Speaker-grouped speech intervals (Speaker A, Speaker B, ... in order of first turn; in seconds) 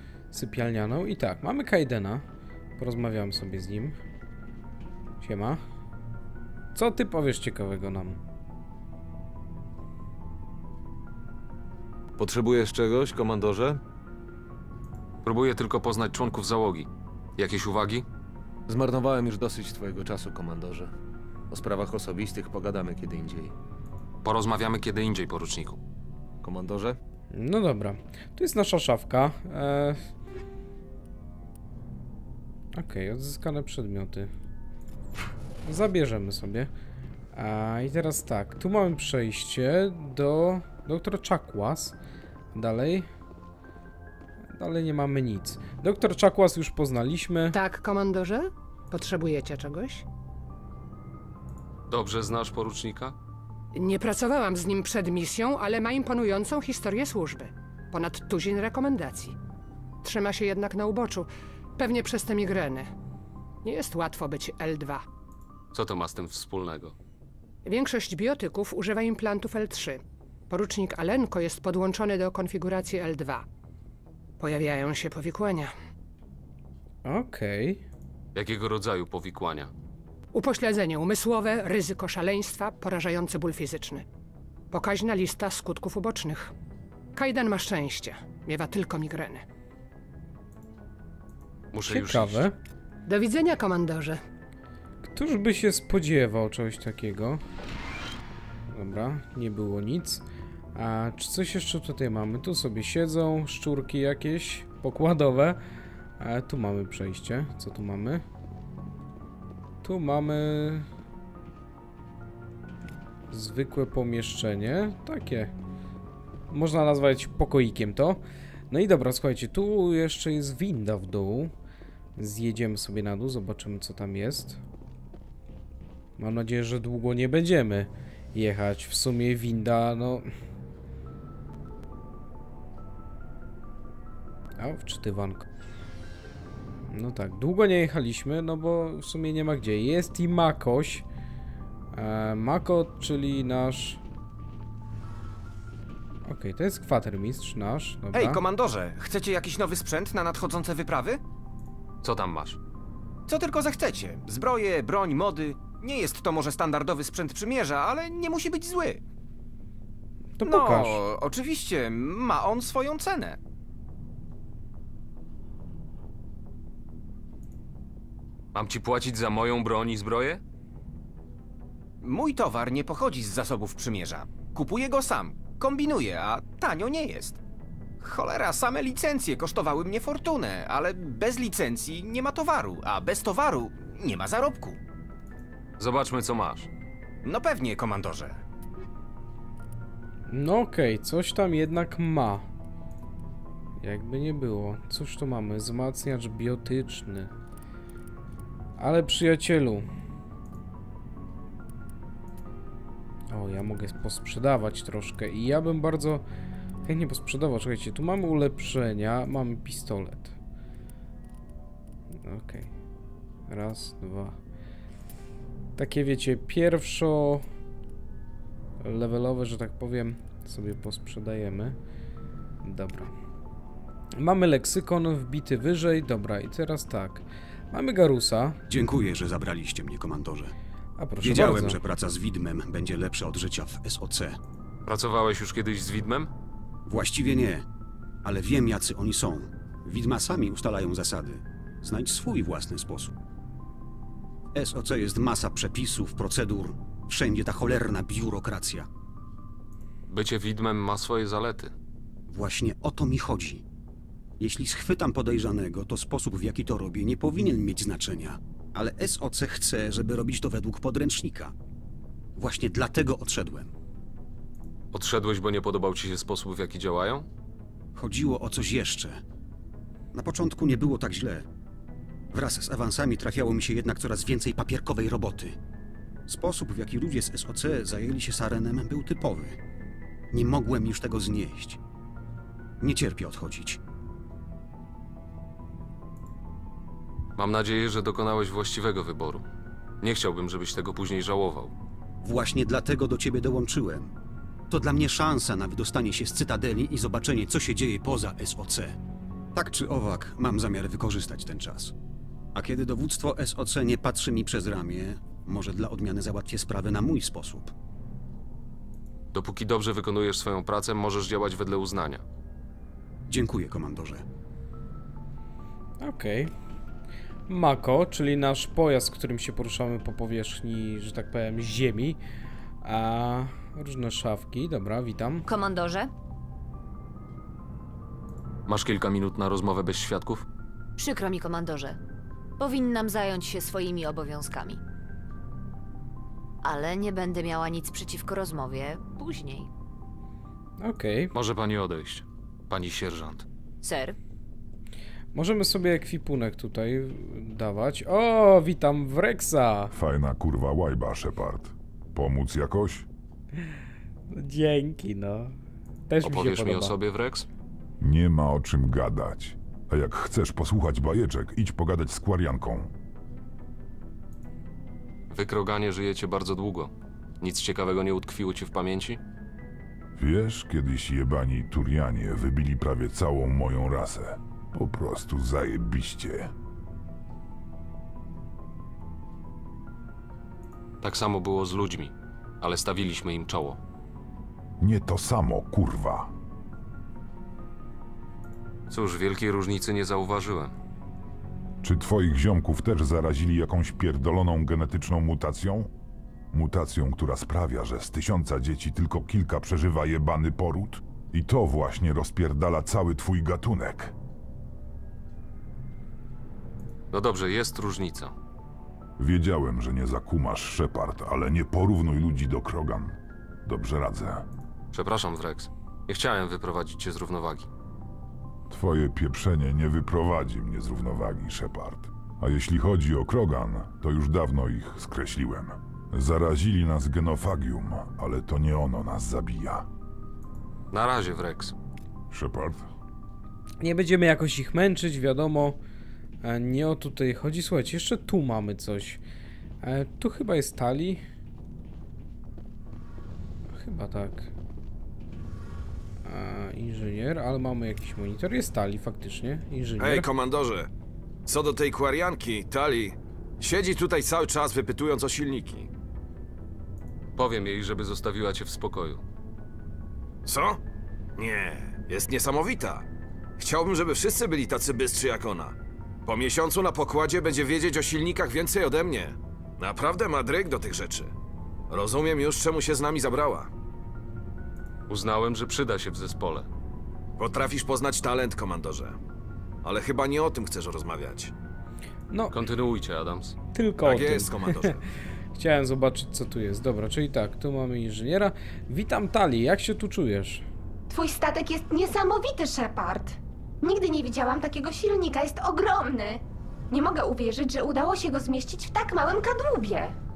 Speaker A: 0.3-2.2, 2.8-4.0, 5.2-5.6, 6.8-8.2, 27.3-30.0, 32.7-34.3, 35.6-36.7, 37.3-42.0, 42.5-43.1, 44.5-47.6, 77.0-77.8, 91.8-92.6, 95.0-97.4, 98.7-100.2, 100.8-105.6, 106.2-108.2, 109.8-110.9, 113.3-115.5, 116.5-121.5, 122.2-124.6, 126.2-130.3, 134.6-135.4, 136.9-141.1, 141.9-144.0, 146.2-148.4, 160.4-161.0, 190.3-192.5, 193.8-197.3, 198.8-199.9, 203.3-206.2, 206.8-210.3, 212.1-212.7, 213.5-214.4, 215.8-217.5, 218.8-221.8, 222.6-223.1, 224.2-228.6, 231.0-231.8, 316.0-316.5, 317.5-322.2, 322.8-325.5, 340.8-341.3, 345.3-349.9, 354.3-355.6, 356.1-356.9, 433.8-435.8, 436.4-439.2, 439.8-441.2, 443.7-444.5, 446.2-450.3, 482.3-482.6, 483.7-485.0, 485.6-490.6
Speaker B: 12.2-13.8, 18.7-20.9, 21.5-23.5, 26.4-27.0
Speaker C: 15.2-18.1, 24.2-25.8, 51.9-53.1, 65.7-67.0, 78.3-79.7, 91.7-92.5, 152.0-152.6, 168.5-170.4, 185.8-186.7, 234.8-236.3, 250.1-251.7, 264.9-267.3, 287.4-289.5, 290.0-291.7, 309.3-312.2, 328.7-330.4, 341.3-343.4, 356.2-357.5, 365.3-369.2, 381.0-383.8, 388.9-390.8, 407.1-408.4, 414.9-417.7, 430.9-431.7, 457.4-459.2, 475.1-476.7, 482.5-483.6
Speaker D: 47.5-50.0, 53.8-59.4, 60.0-62.9, 63.6-65.0, 67.7-73.5, 74.4-75.7, 80.3-84.1, 84.7-86.5, 87.2-89.5, 93.1-94.2
Speaker E: 148.1-151.2, 153.3-159.0, 160.4-163.4, 172.0-177.4, 178.0-184.8, 187.2-188.4
Speaker F: 228.7-230.5, 231.2-234.4, 236.9-237.7, 238.2-243.1, 244.5-248.9, 252.3-253.6, 254.4-261.5, 262.4-263.7, 267.9-269.2, 270.1-271.5, 272.3-275.6, 276.3-279.6, 280.3-281.8, 282.8-283.8, 292.2-294.1, 294.7-299.0, 299.5-301.9, 302.6-307.7, 313.3-314.2
Speaker G: 325.4-326.1, 331.0-332.0, 332.6-334.8, 336.6-339.7, 343.8-344.2
Speaker H: 349.9-353.1, 358.0-362.9, 370.2-376.5, 384.8-386.3, 391.8-395.9, 396.5-404.1, 409.2-414.5, 418.7-429.9, 432.3-432.9
Speaker I: 450.0-450.9, 451.5-455.9, 460.5-460.8, 461.4-463.1, 463.6-471.3, 471.9-473.7, 477.4-479.2, 479.8-481.5, 484.0-485.0
Speaker J: 491.1-500.1